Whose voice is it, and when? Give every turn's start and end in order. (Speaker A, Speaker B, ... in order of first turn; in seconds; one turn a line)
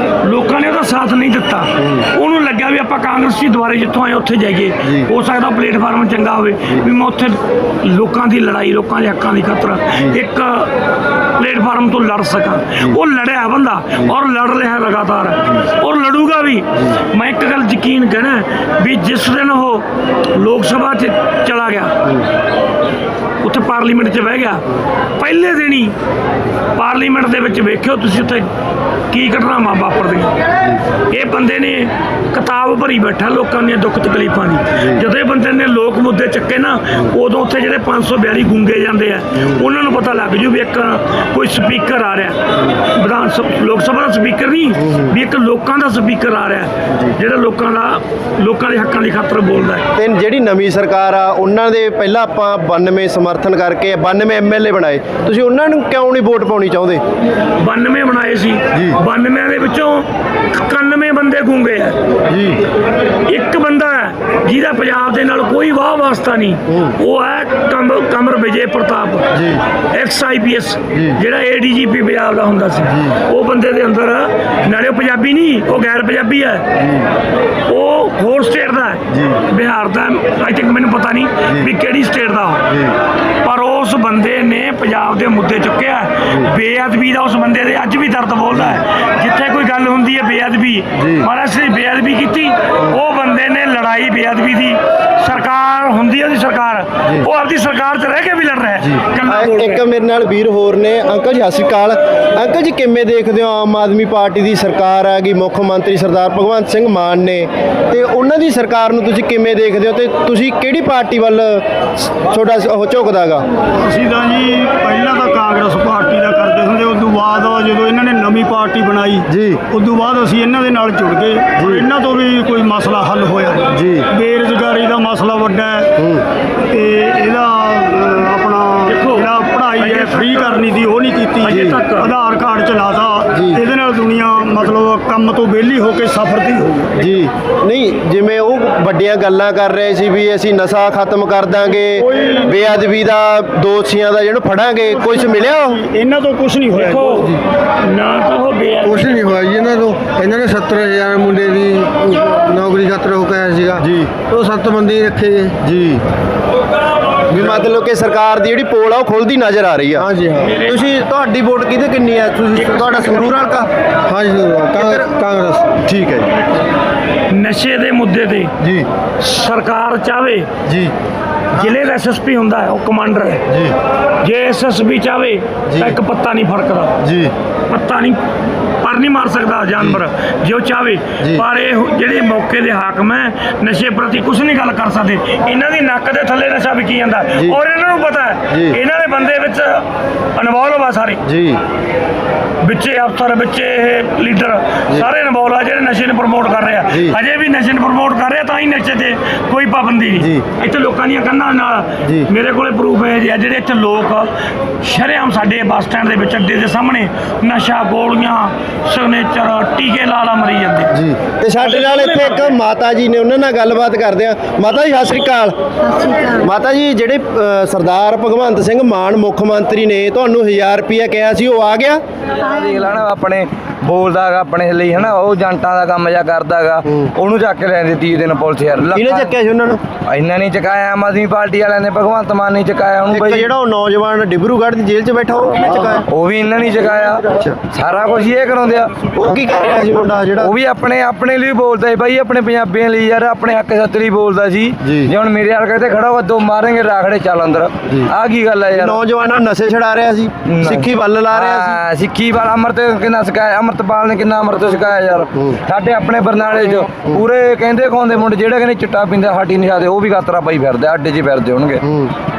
Speaker A: 0.2-10.7
Speaker B: 4.8-5.1
Speaker A: 11.4-19.8
Speaker A: 20.4-21.9
Speaker A: 23.4-24.6
Speaker A: 25.2-25.9
Speaker A: 26.8-28.5
Speaker A: 29.1-30.3
Speaker A: 31.1-42.4
Speaker B: 34.7-35.0
Speaker A: 42.9-49.9
Speaker B: 44.8-45.1
Speaker B: 50.0-57.0
Speaker A: 57.6-62.0
Speaker B: 62.3-62.6
Speaker A: 63.3-69.2
Speaker B: 69.3-69.6
Speaker A: 69.9-76.7
Speaker A: 77.7-82.7
Speaker B: 79.1-79.4
Speaker A: 83.4-99.8
Speaker B: 91.0-91.3
Speaker B: 98.8-113.5
Speaker C: 113.8-125.9
Speaker B: 119.3-119.6
Speaker B: 121.6-121.8
Speaker B: 123.7-124.0
Speaker B: 126.0-126.2
Speaker C: 126.7-136.9
Speaker A: 128.9-130.6
Speaker A: 131.4-132.1
Speaker B: 131.5-131.8
Speaker B: 133.3-133.6
Speaker B: 137.0-145.8
Speaker C: 142.0-142.8
Speaker C: 144.9-147.2
Speaker A: 146.7-149.2
Speaker D: 148.9-155.6
Speaker B: 153.7-154.2
Speaker B: 155.6-156.0
Speaker B: 157.3-165.2
Speaker A: 160.4-160.8
Speaker A: 162.6-163.4
Speaker D: 165.3-165.7
Speaker B: 165.8-166.3
Speaker A: 167.3-168.5
Speaker A: 169.2-170.5
Speaker B: 170.7-170.9
Speaker A: 171.6-173.4
Speaker B: 173.5-173.7
Speaker A: 174.2-176.9
Speaker B: 175.7-175.9
Speaker B: 177.0-177.3
Speaker A: 177.7-178.2
Speaker A: 178.8-191.2
Speaker B: 181.2-181.4
Speaker B: 188.5-188.8
Speaker B: 191.2-191.6
Speaker A: 192.6-204.3
Speaker B: 196.9-197.2
Speaker B: 200.2-200.4
Speaker A: 204.8-210.9
Speaker B: 210.9-215.5
Speaker A: 211.6-212.6
Speaker B: 216.3-222.0
Speaker E: 222.4-229.4
Speaker B: 226.8-227.1
Speaker B: 228.9-229.8
Speaker E: 230.1-233.5
Speaker B: 233.1-236.0
Speaker E: 235.7-239.3
Speaker B: 237.3-237.6
Speaker B: 239.1-240.5
Speaker E: 240.3-249.0
Speaker B: 244.8-245.1
Speaker B: 248.7-251.8
Speaker E: 250.4-261.8
Speaker B: 261.8-262.1